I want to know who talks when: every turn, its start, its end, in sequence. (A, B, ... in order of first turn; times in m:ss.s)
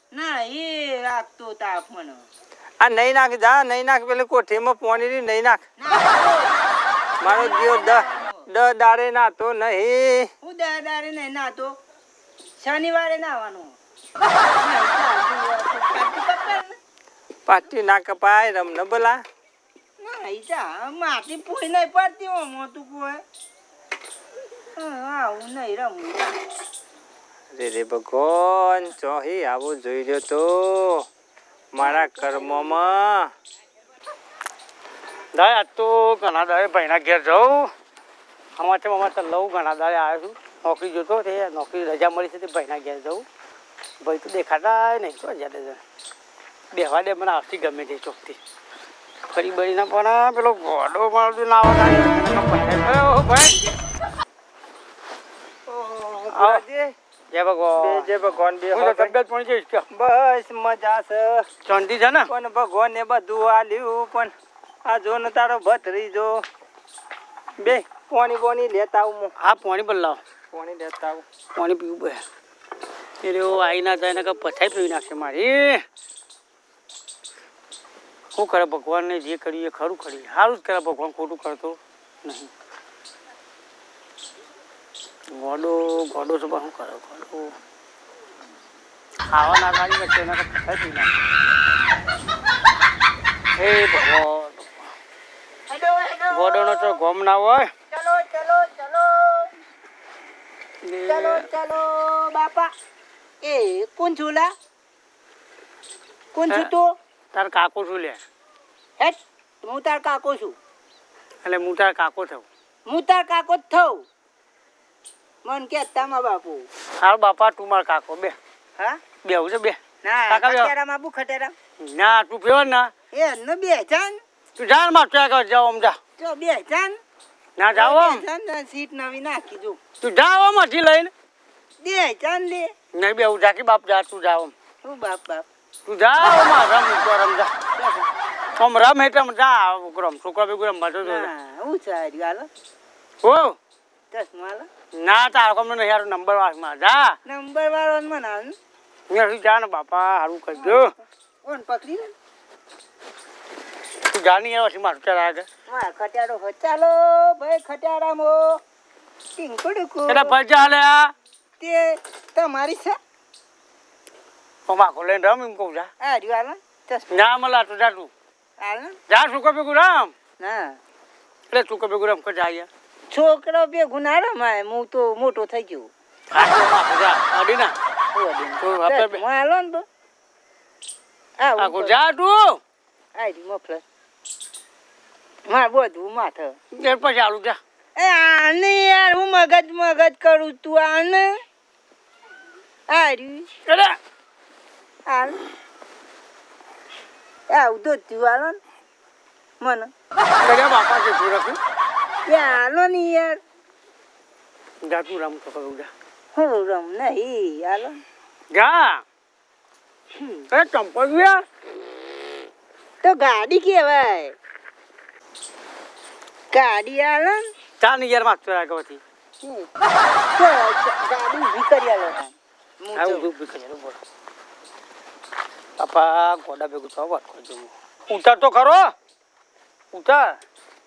0:00.1-0:02.2 A
0:02.8-0:05.6 B
0:05.8-0:06.6 A
0:07.2-0:10.3 B
0:07.2-0:08.4 A
0:10.4-0:11.7 A
0:12.6-0:13.8 A
0:14.6-0:16.7 A
0:17.5-0:19.2 B
0:20.0-0:23.2 A
0:24.8-0:26.4 A
0:27.5-0:31.0 B
0:31.7-0:33.3 B
0:31.8-0:32.7 A
0:35.3-0:37.7 C
0:38.6-0:43.2 C
0:44.0-0:45.8 C
0:46.7-0:48.4 C
0:49.3-0:53.6 C
0:55.7-0:56.9 B
0:56.3-0:56.6 C
0:57.3-0:58.1 C
0:57.8-0:59.1 B
0:58.7-0:59.9 C
0:59.9-1:01.4 B
1:01.6-1:02.3 C
1:02.3-1:04.3 B
1:04.8-1:06.4 B
1:07.6-1:09.3 B
1:09.4-1:10.2 C
1:10.5-1:11.2 B
1:11.6-1:12.2 C
1:13.2-1:15.8 C
1:18.3-1:22.5 C
1:25.3-1:27.5 C
1:29.3-1:31.1 C
1:33.6-1:34.7 C
1:35.7-1:37.0 A
1:36.3-1:37.7 C
1:37.9-1:39.5 A
1:40.8-1:41.5 C
1:41.0-1:42.7 A
1:43.4-1:44.5 A
1:46.3-1:46.9 A
1:47.3-1:48.2 C
1:49.0-1:50.6 A
1:51.4-1:52.4 C
1:52.9-1:54.0 A
1:55.4-1:56.7 A
1:57.0-1:58.4 C
1:59.2-1:59.8 C
2:00.0-2:01.5 A
2:00.3-2:00.7 C
2:01.8-2:02.9 C
2:03.1-2:04.2 A
2:04.6-2:06.0 C
2:06.2-2:07.0 A
2:07.6-2:08.2 C
2:07.7-2:09.8 A
2:10.0-2:11.1 C
2:11.8-2:12.7 A
2:12.9-2:14.5 C
2:14.8-2:15.4 A
2:15.8-2:17.5 C
2:17.8-2:18.1 A
2:18.6-2:21.3 C
2:21.0-2:22.5 A
2:23.2-2:23.6 C
2:24.1-2:24.7 A
2:25.0-2:27.1 C
2:27.2-2:28.5 A
2:29.1-2:30.9 C
2:30.6-2:30.9 A
2:31.4-2:32.1 A
2:34.1-2:35.5 C
2:35.7-2:38.6 A
2:39.4-2:40.3 A
2:40.1-2:41.1 C
2:41.6-2:43.0 A
2:44.7-2:45.9 C
2:46.0-2:47.2 A
2:47.1-2:48.1 C
2:48.6-2:49.0 A
2:49.1-2:50.1 C
2:50.4-2:50.8 A
2:51.5-2:52.7 C
2:53.1-2:55.9 A
2:56.3-2:57.8 C
2:58.1-2:59.8 A
2:58.6-2:59.2 C
3:01.4-3:02.0 A
3:01.6-3:02.6 C
3:03.1-3:03.8 A
3:05.5-3:06.6 A
3:06.7-3:07.6 C
3:08.0-3:11.4 A
3:12.9-3:13.5 A
3:13.7-3:13.9 C
3:15.1-3:15.5 A
3:17.5-3:18.6 A
3:19.6-3:19.9 A
3:20.4-3:21.6 C
3:22.3-3:23.4 A
3:24.8-3:25.9 C
3:26.3-3:28.0 A
3:28.5-3:29.0 C
3:30.2-3:30.4 A
3:30.5-3:31.4 C
3:33.0-3:34.4 A
3:36.5-3:37.4 A
3:37.8-3:39.0 C
3:39.4-3:39.7 A
3:40.3-3:43.3 A
3:43.0-3:44.0 C
3:45.8-3:48.9 C
3:49.9-3:50.4 C